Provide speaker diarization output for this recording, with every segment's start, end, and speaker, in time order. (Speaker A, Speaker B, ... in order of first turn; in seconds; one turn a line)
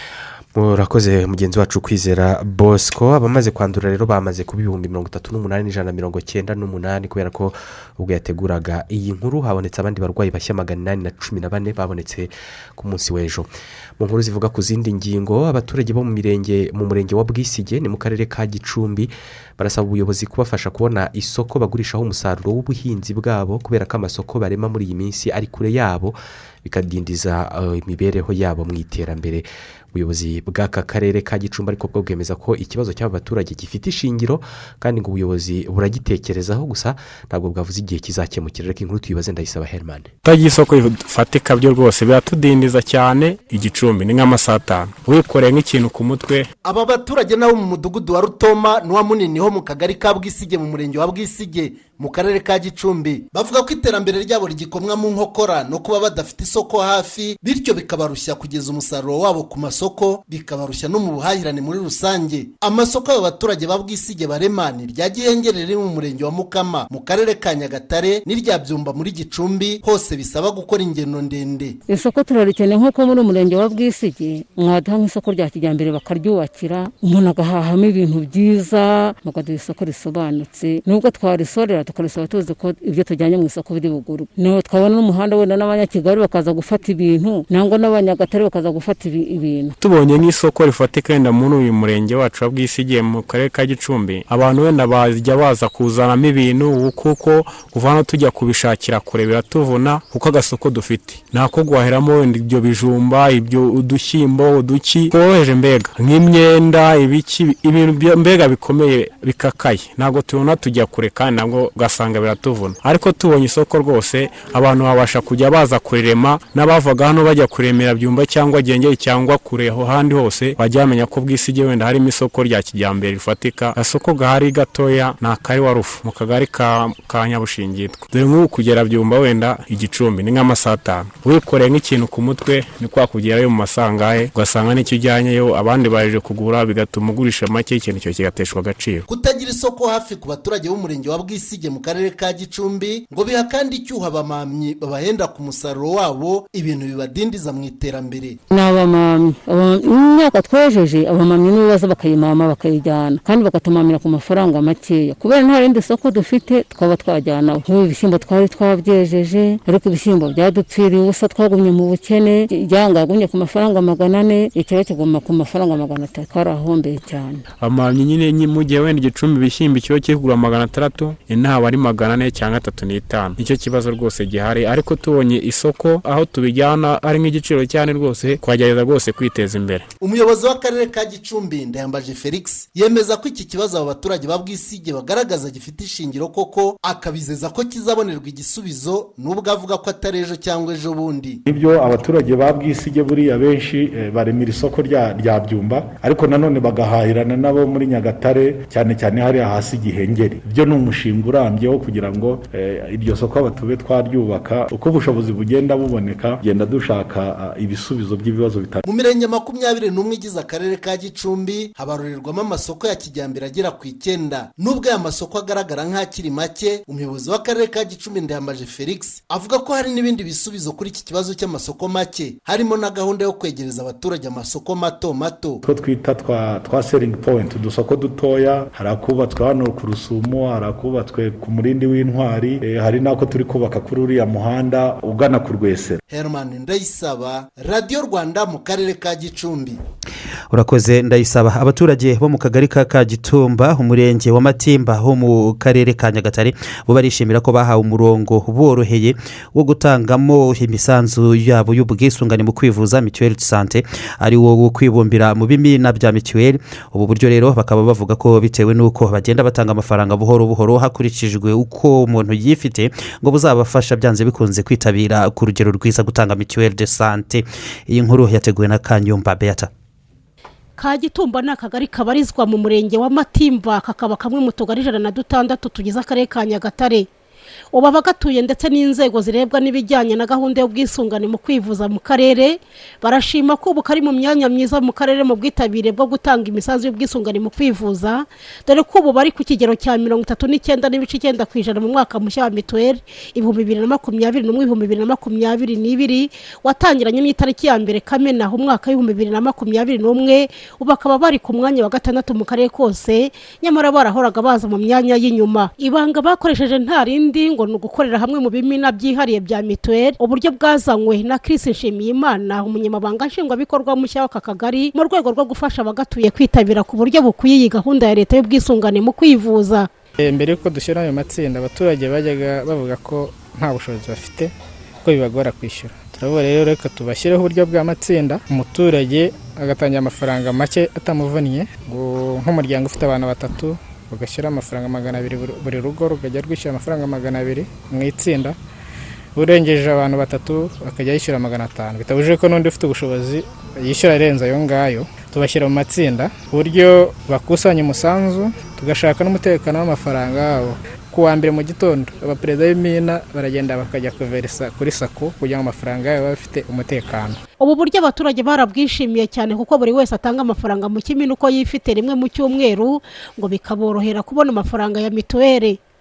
Speaker A: 0.5-40.1
Speaker B: 40.2-46.5
Speaker C: 46.6-71.8
Speaker D: 71.9-89.7
Speaker B: 89.8-139.1
Speaker C: 139.1-148.4
Speaker D: 148.5-167.4
Speaker B: 167.6-179.9
Speaker C: 180.0-191.4
Speaker E: 191.5-208.8
Speaker C: 208.8-225.6
Speaker E: 225.6-236.0
Speaker C: 236.1-239.8
Speaker F: 240.5-269.7
Speaker G: 270.8-277.1
Speaker G: 277.7-319.9
Speaker H: 320.2-324.5
Speaker H: 325.0-338.6
Speaker H: 339.4-357.4
Speaker G: 357.6-365.8